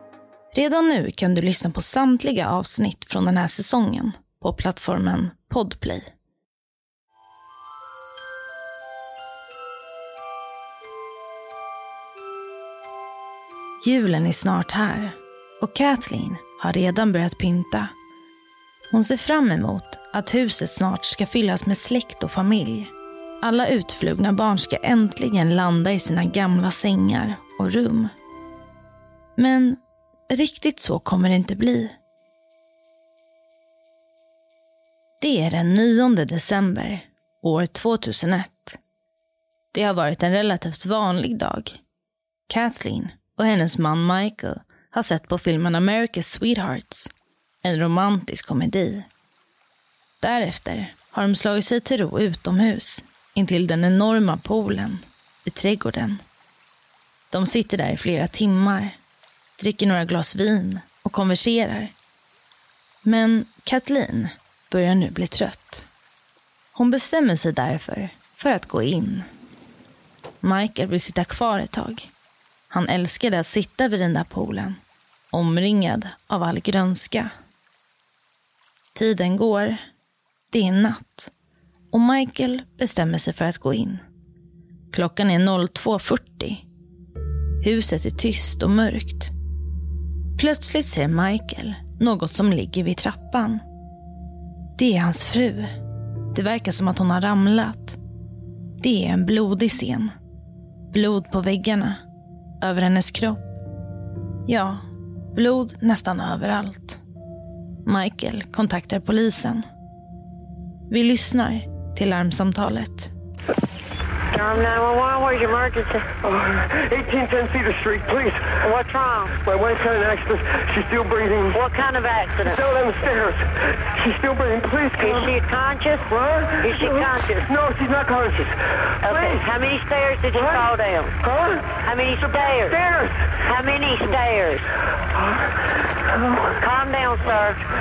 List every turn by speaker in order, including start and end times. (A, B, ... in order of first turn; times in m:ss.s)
0:00.5-0:06.1 A
0:13.8-0:17.9 A
0:18.9-0:28.1 A
0:29.4-0:32.0 A
0:35.2-0:38.8 A
0:39.7-0:41.8 A
0:42.5-0:47.1 A
0:47.6-0:49.1 A
0:50.2-0:56.2 A
0:57.3-0:59.0 A
0:59.6-1:01.9 A
1:03.0-1:05.9 A
1:06.8-1:09.3 A
1:10.4-1:12.1 A
1:12.7-1:14.8 A
1:15.3-1:17.3 A
1:19.0-1:19.8 A
1:20.5-1:21.3 A
1:21.9-1:24.0 A
1:24.9-1:26.6 A
1:27.6-1:29.3 A
1:30.4-1:33.6 A
1:34.8-1:35.8 A
1:36.3-1:38.0 A
1:38.8-1:40.1 A
1:40.9-1:42.0 A
1:42.6-1:43.4 A
1:44.5-1:44.8 A
1:45.4-1:47.0 A
1:47.8-1:49.6 A
1:50.9-1:53.1 A
1:54.3-1:56.1 B
1:56.2-1:58.6 C
1:58.6-1:59.4 B
1:59.4-2:01.6 C
2:01.5-2:02.6 B
2:02.4-2:05.2 C
2:05.0-2:07.5 B
2:06.1-2:06.7 C
2:07.5-2:09.4 C
2:09.0-2:11.2 B
2:11.2-2:11.8 C
2:11.8-2:12.8 B
2:12.4-2:13.3 C
2:13.4-2:14.7 B
2:16.3-2:17.6 B